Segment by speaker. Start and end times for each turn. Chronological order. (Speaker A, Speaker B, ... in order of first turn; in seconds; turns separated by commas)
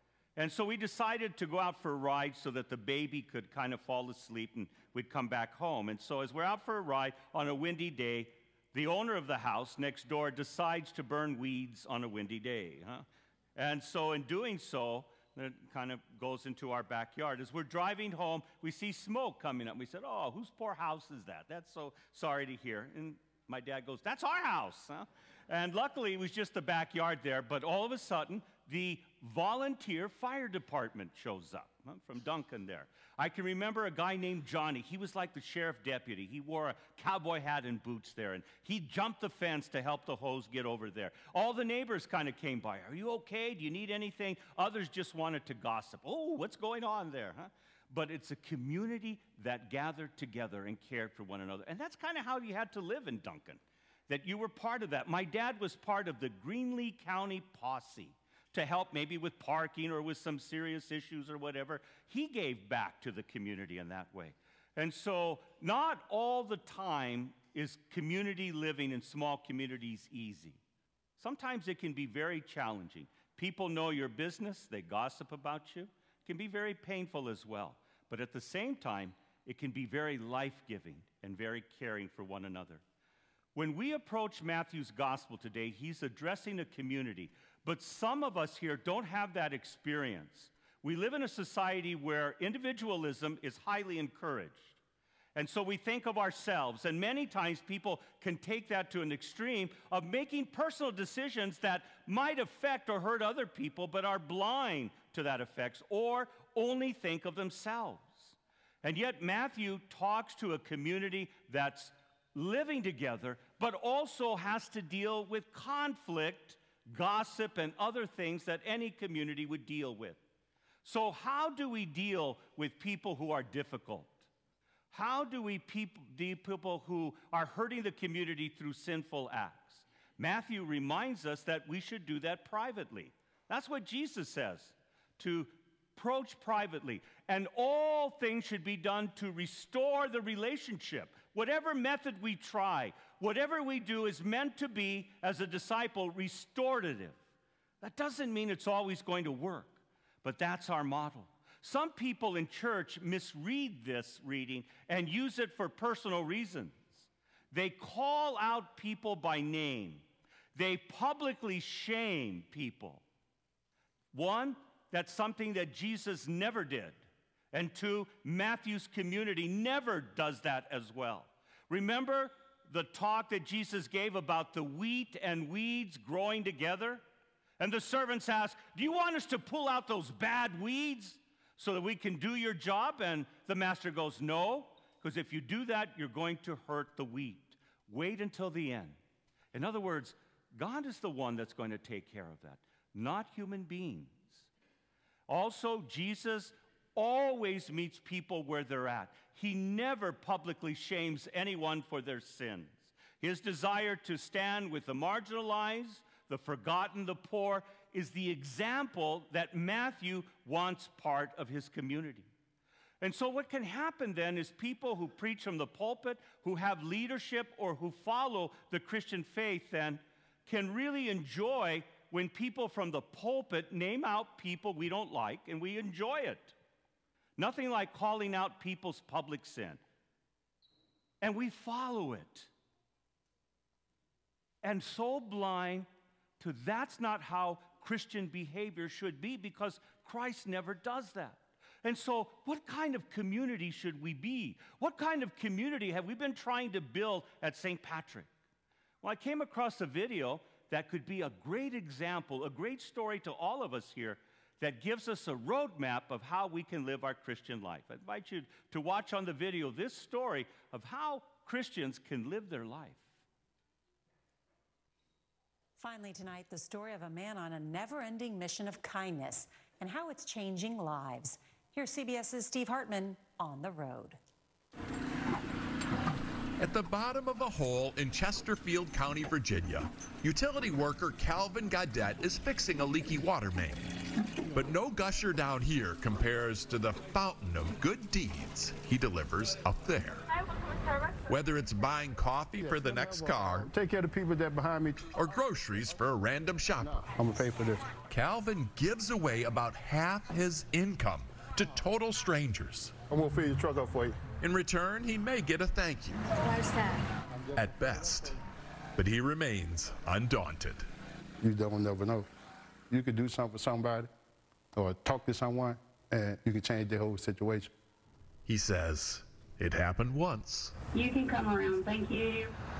Speaker A: 0.4-13.0, Speaker A: 13.6-70.6, Speaker A: 71.2-82.8, Speaker A: 83.5-94.8, Speaker A: 95.3-120.2, Speaker A: 120.8-124.3, Speaker A: 124.9-147.2, Speaker A: 147.8-163.0, Speaker A: 164.1-177.0, Speaker A: 177.6-189.0, Speaker A: 189.5-194.5, Speaker A: 195.3-212.3, Speaker A: 213.0-226.6, Speaker A: 227.4-229.8, Speaker A: 231.2-232.5, Speaker A: 234.6-235.9, Speaker A: 236.4-248.3, Speaker A: 249.0-263.1, Speaker B: 265.8-274.2, Speaker C: 276.6-283.9, Speaker C: 284.5-290.2, Speaker C: 291.3-293.7, Speaker D: 292.6-295.1, Speaker C: 295.1-297.0, Speaker D: 296.8-297.8, Speaker C: 298.1-302.9, Speaker D: 303.1-304.2, Speaker C: 304.4-306.2, Speaker E: 306.5-307.0, Speaker C: 307.5-308.4, Speaker C: 308.9-310.9, Speaker D: 311.4-312.3, Speaker D: 312.9-314.1, Speaker D: 314.7-317.7, Speaker C: 318.4-320.7, Speaker E: 320.9-322.5